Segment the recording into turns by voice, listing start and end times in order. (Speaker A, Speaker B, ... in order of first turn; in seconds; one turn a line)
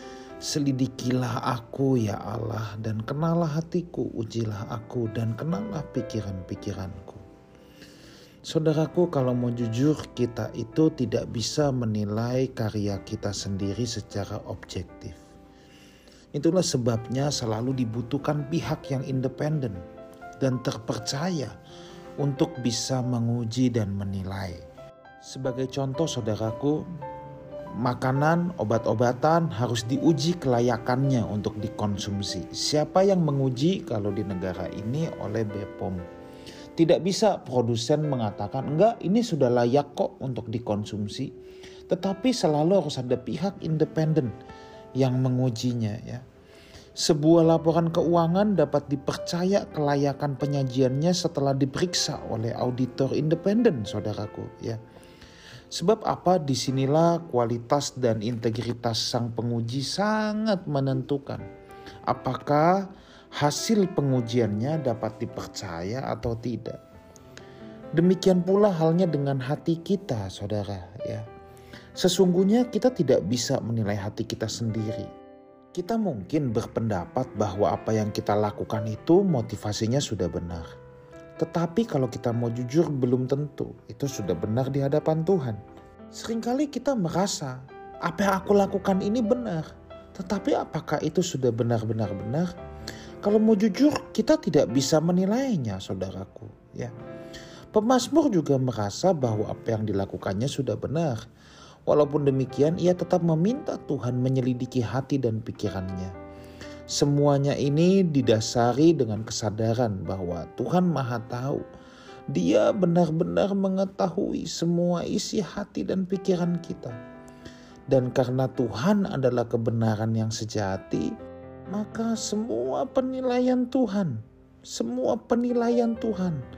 Speaker A: 0.4-7.2
Speaker A: 8.5-15.2
Speaker A: 16.3-19.8
Speaker A: 20.4-21.6
Speaker A: 22.2-24.6
Speaker A: 25.3-26.8
Speaker A: 27.8-36.0
Speaker A: 36.8-41.3
Speaker A: 41.9-44.3
Speaker A: 45.0-46.2
Speaker A: 47.0-54.8
Speaker A: 55.7-61.5
Speaker A: 62.1-62.8
Speaker A: 63.4-66.8
Speaker A: 68.0-71.2
Speaker A: 72.0-75.1
Speaker A: 75.8-80.7
Speaker A: 81.4-85.6
Speaker A: 86.1-92.5
Speaker A: 93.2-96.9
Speaker A: 97.7-101.2
Speaker A: 101.9-106.1
Speaker A: 106.9-111.6
Speaker A: 112.3-117.0
Speaker A: 117.9-121.1
Speaker A: 121.7-126.4